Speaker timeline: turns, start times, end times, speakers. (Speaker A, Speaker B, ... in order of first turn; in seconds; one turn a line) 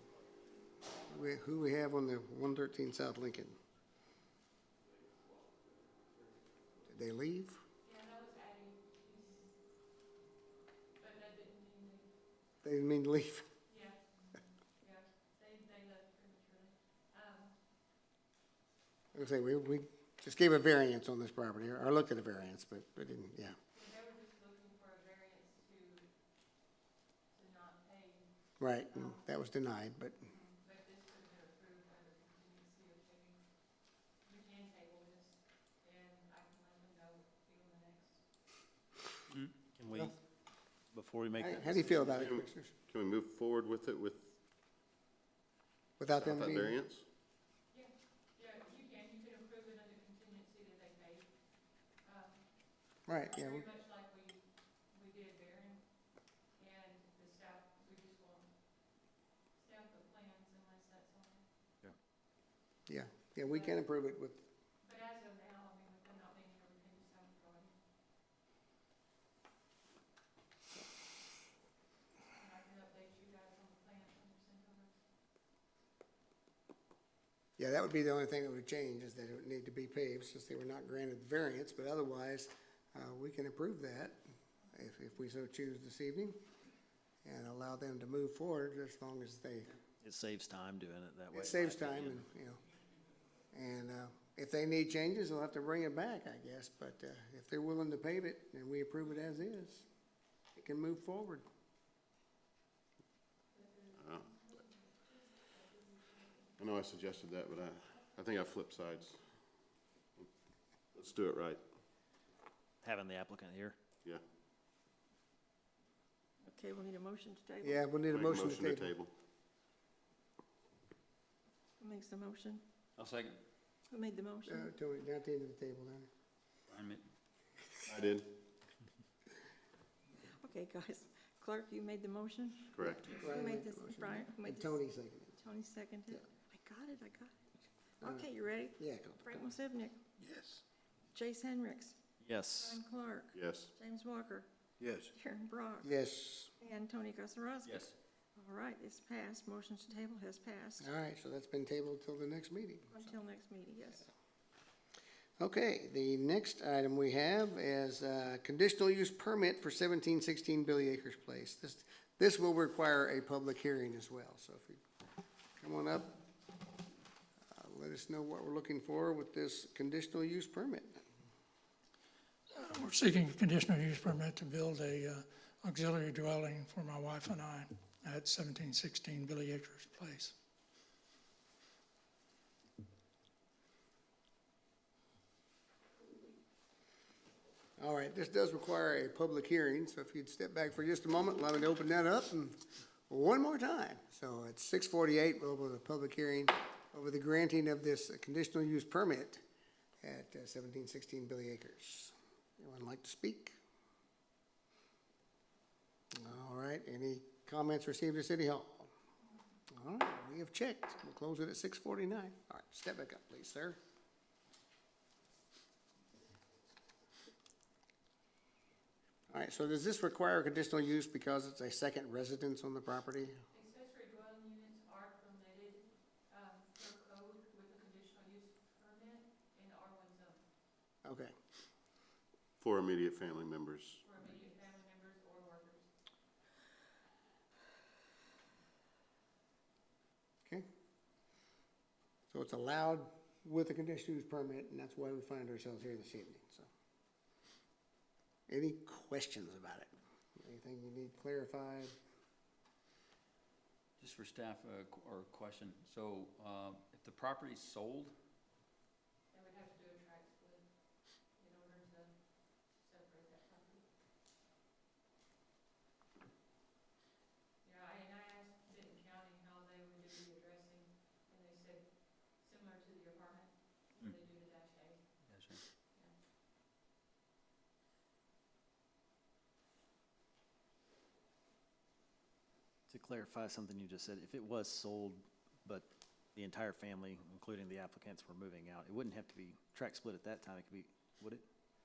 Speaker A: 1.1-3.6
Speaker A: 6.9-7.6
Speaker B: 7.8-9.5
Speaker B: 11.0-12.1
Speaker A: 12.6-13.5
Speaker B: 13.7-14.0
Speaker B: 14.8-17.5
Speaker A: 19.1-23.6
Speaker B: 23.7-26.1
Speaker B: 27.3-28.2
Speaker A: 28.6-30.2
Speaker B: 28.9-29.2
Speaker B: 30.2-33.4
Speaker B: 34.2-38.2
Speaker C: 39.8-40.1
Speaker C: 40.9-42.3
Speaker A: 41.4-42.7
Speaker D: 42.0-44.4
Speaker A: 46.0-46.8
Speaker D: 46.1-47.0
Speaker B: 47.7-51.3
Speaker B: 52.0-52.4
Speaker A: 53.1-53.7
Speaker B: 53.1-55.8
Speaker B: 56.6-58.5
Speaker B: 59.6-61.4
Speaker A: 62.9-64.5
Speaker B: 63.4-63.8
Speaker B: 64.8-67.7
Speaker B: 72.3-74.9
Speaker A: 77.6-84.2
Speaker A: 84.7-86.4
Speaker A: 87.2-89.8
Speaker C: 90.0-92.3
Speaker A: 91.3-92.6
Speaker A: 93.5-99.9
Speaker A: 100.5-101.5
Speaker B: 103.5-106.5
Speaker D: 104.0-104.3
Speaker D: 106.6-109.4
Speaker D: 110.9-111.6
Speaker C: 112.8-113.8
Speaker E: 116.5-117.8
Speaker A: 117.6-118.9
Speaker D: 118.1-119.1
Speaker E: 121.8-122.6
Speaker F: 123.0-123.3
Speaker E: 123.9-124.7
Speaker A: 124.5-126.1
Speaker D: 127.9-128.3
Speaker E: 130.4-134.8
Speaker D: 132.7-133.2
Speaker A: 133.1-135.4
Speaker E: 135.4-137.3
Speaker E: 138.0-140.0
Speaker A: 138.0-139.3
Speaker E: 141.1-142.0
Speaker C: 142.2-142.8
Speaker E: 142.6-144.5
Speaker D: 143.3-143.7
Speaker E: 145.0-145.9
Speaker A: 145.8-146.5
Speaker E: 146.6-150.9
Speaker A: 150.8-153.2
Speaker E: 152.9-154.1
Speaker A: 155.4-164.8
Speaker A: 165.6-166.1
Speaker A: 167.5-171.0
Speaker G: 172.5-180.3
Speaker A: 187.8-199.4
Speaker A: 200.0-203.6
Speaker A: 206.1-208.9
Speaker A: 209.7-213.8
Speaker A: 219.3-223.4
Speaker B: 223.5-230.4
Speaker A: 231.0-231.3
Speaker D: 232.6-234.0
Speaker B: 234.0-235.9
Speaker A: 242.3-246.7
Speaker A: 248.5-252.0
Speaker F: 254.0-258.1
Speaker B: 259.3-260.6
Speaker B: 261.3-262.1
Speaker B: 262.7-263.9
Speaker B: 267.6-275.0
Speaker F: 275.3-275.6
Speaker C: 282.9-291.4